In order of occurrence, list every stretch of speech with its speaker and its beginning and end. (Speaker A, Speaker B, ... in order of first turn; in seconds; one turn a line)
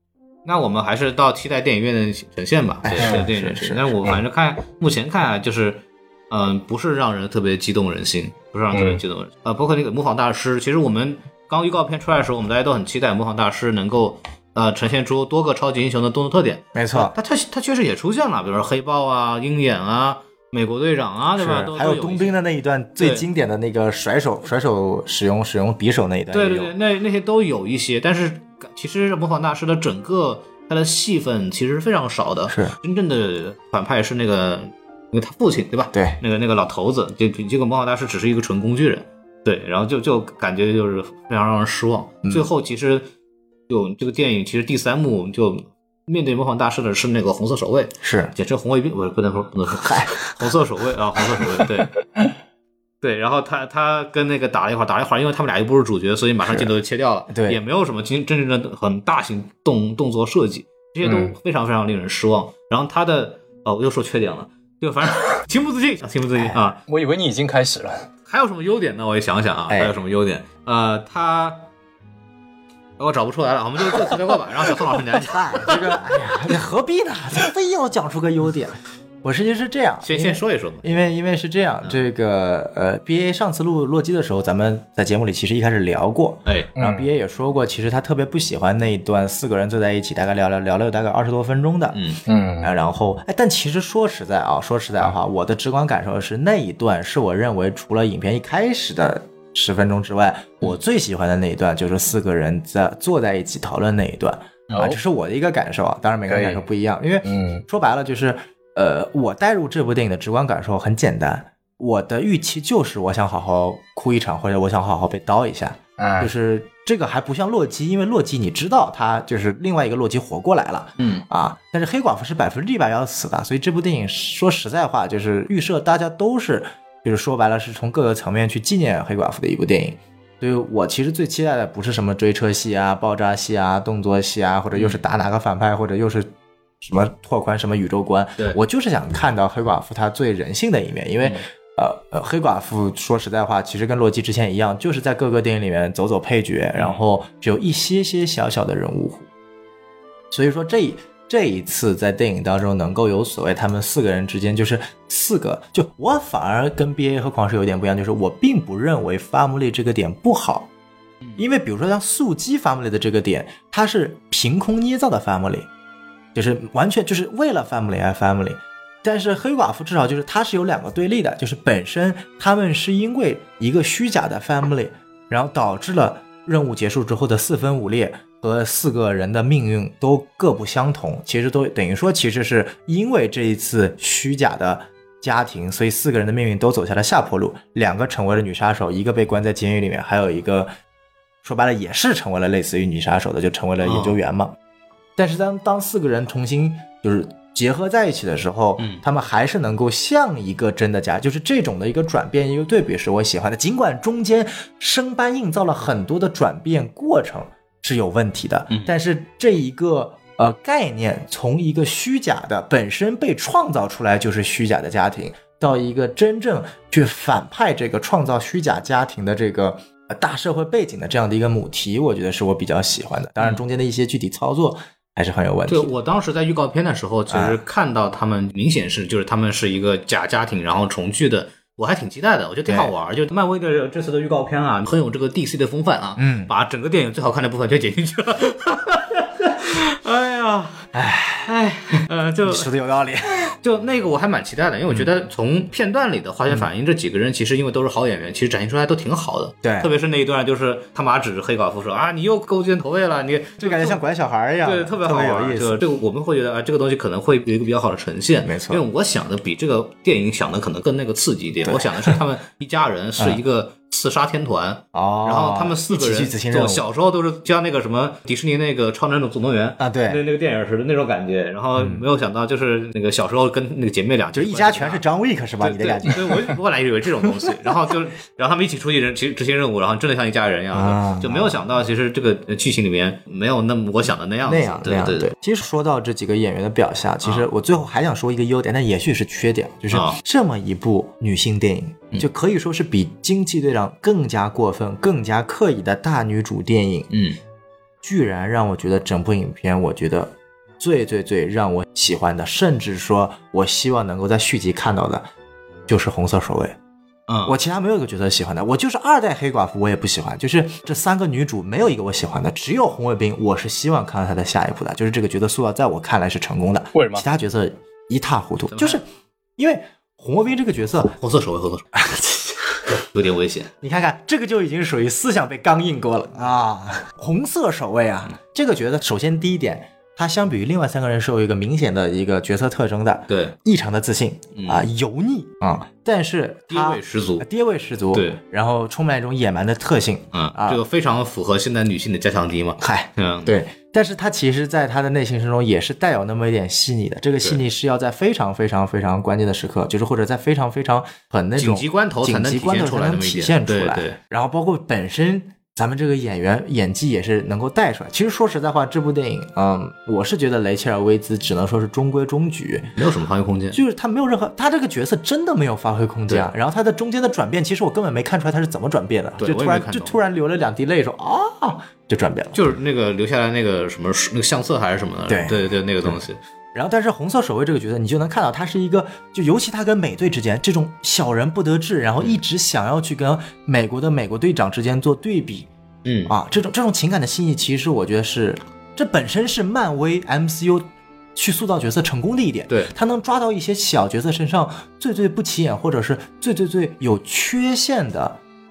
Speaker A: 0.5-22.4
Speaker B: 2.8-3.9
Speaker C: 3.0-3.2
Speaker C: 8.7-9.0
Speaker B: 16.8-17.1
Speaker B: 21.4-26.7
Speaker A: 23.0-23.3
Speaker A: 26.3-43.1
Speaker B: 32.5-32.8
Speaker B: 35.9-36.2
Speaker A: 43.7-51.9
Speaker B: 48.0-48.3
Speaker B: 49.8-50.2
Speaker A: 53.0-66.8
Speaker B: 56.4-56.7
Speaker B: 57.3-57.6
Speaker C: 61.0-61.3
Speaker B: 66.4-66.6
Speaker C: 66.9-68.1
Speaker A: 68.3-71.7
Speaker B: 69.7-70.0
Speaker A: 73.0-76.0
Speaker B: 75.2-92.0
Speaker A: 80.0-80.9
Speaker C: 86.8-87.1
Speaker A: 91.9-92.2
Speaker C: 92.3-92.7
Speaker B: 92.6-149.3
Speaker C: 104.7-105.0
Speaker C: 106.3-106.6
Speaker C: 107.2-107.7
Speaker C: 116.0-116.3
Speaker A: 134.7-135.0
Speaker A: 146.8-147.0
Speaker B: 150.3-160.7
Speaker B: 161.4-165.7
Speaker B: 166.3-190.7
Speaker B: 191.4-194.6
Speaker A: 193.8-194.2
Speaker B: 195.2-225.9
Speaker A: 225.7-240.9
Speaker B: 227.3-227.6
Speaker B: 232.7-232.9
Speaker B: 236.2-236.5
Speaker B: 240.9-241.6
Speaker A: 241.5-242.7
Speaker B: 242.5-243.5
Speaker A: 243.4-254.0
Speaker B: 249.6-249.9
Speaker B: 253.6-255.8
Speaker A: 254.6-275.0
Speaker B: 258.4-258.8
Speaker B: 261.6-262.2
Speaker B: 264.9-266.9
Speaker B: 269.8-270.2
Speaker B: 271.8-272.1
Speaker B: 274.3-276.6
Speaker A: 275.6-285.3
Speaker B: 280.7-281.6
Speaker B: 284.4-297.1
Speaker A: 287.2-287.5
Speaker A: 289.9-290.2
Speaker A: 297.1-297.4
Speaker B: 298.0-305.3
Speaker B: 305.9-306.8
Speaker A: 307.3-307.6
Speaker B: 307.4-319.0
Speaker C: 316.9-317.3
Speaker A: 318.7-319.0
Speaker B: 319.6-321.1
Speaker A: 321.2-322.0
Speaker B: 322.0-322.6
Speaker A: 323.1-323.7
Speaker B: 323.8-340.8
Speaker A: 333.3-333.6
Speaker A: 334.6-334.9
Speaker A: 336.7-337.5
Speaker A: 338.1-338.4
Speaker A: 340.3-343.6
Speaker B: 342.8-362.9
Speaker A: 351.6-354.2
Speaker A: 363.0-363.8
Speaker B: 363.7-372.6
Speaker A: 369.4-370.2
Speaker A: 372.5-376.4
Speaker B: 375.3-376.2
Speaker B: 376.7-385.7
Speaker A: 386.1-386.4
Speaker B: 386.3-398.4